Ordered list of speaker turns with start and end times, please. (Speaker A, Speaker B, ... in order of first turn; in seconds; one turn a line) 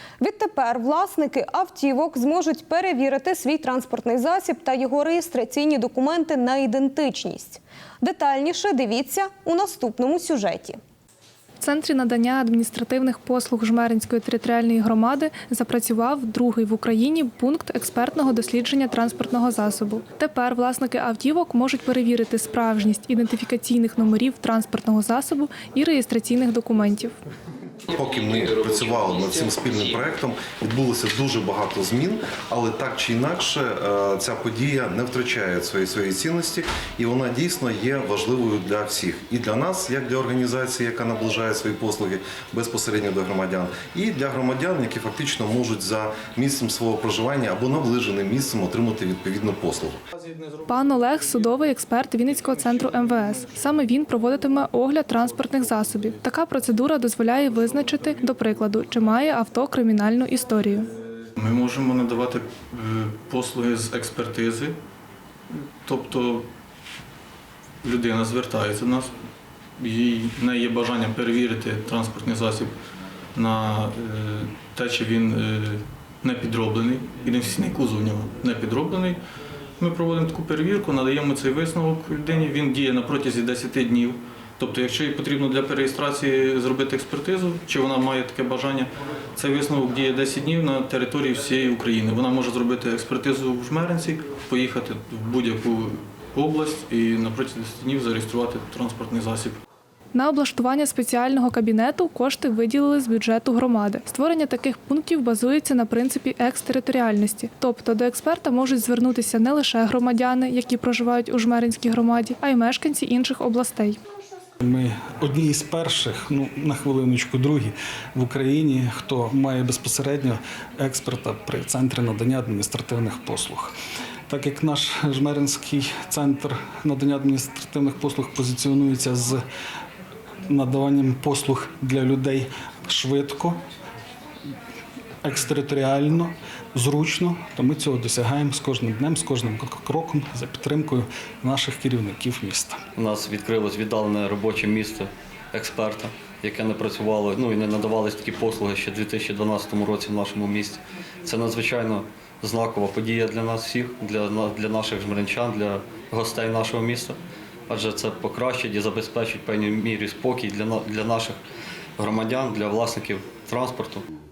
Speaker A: 0.2-10.8
Speaker B: 11.6-27.1
Speaker C: 27.9-50.0
Speaker D: 50.1-51.6
Speaker B: 50.7-60.9
Speaker D: 52.2-53.5
Speaker D: 55.4-56.1
Speaker D: 61.4-64.8
Speaker D: 65.5-66.5
Speaker D: 67.8-69.1
Speaker D: 69.8-72.7
Speaker D: 73.3-79.2
Speaker D: 79.8-99.6
Speaker B: 100.1-114.0
Speaker E: 114.6-123.7
Speaker E: 124.3-129.4
Speaker E: 130.5-133.6
Speaker E: 135.2-142.8
Speaker F: 142.9-157.2
Speaker F: 157.7-161.4
Speaker F: 162.0-164.0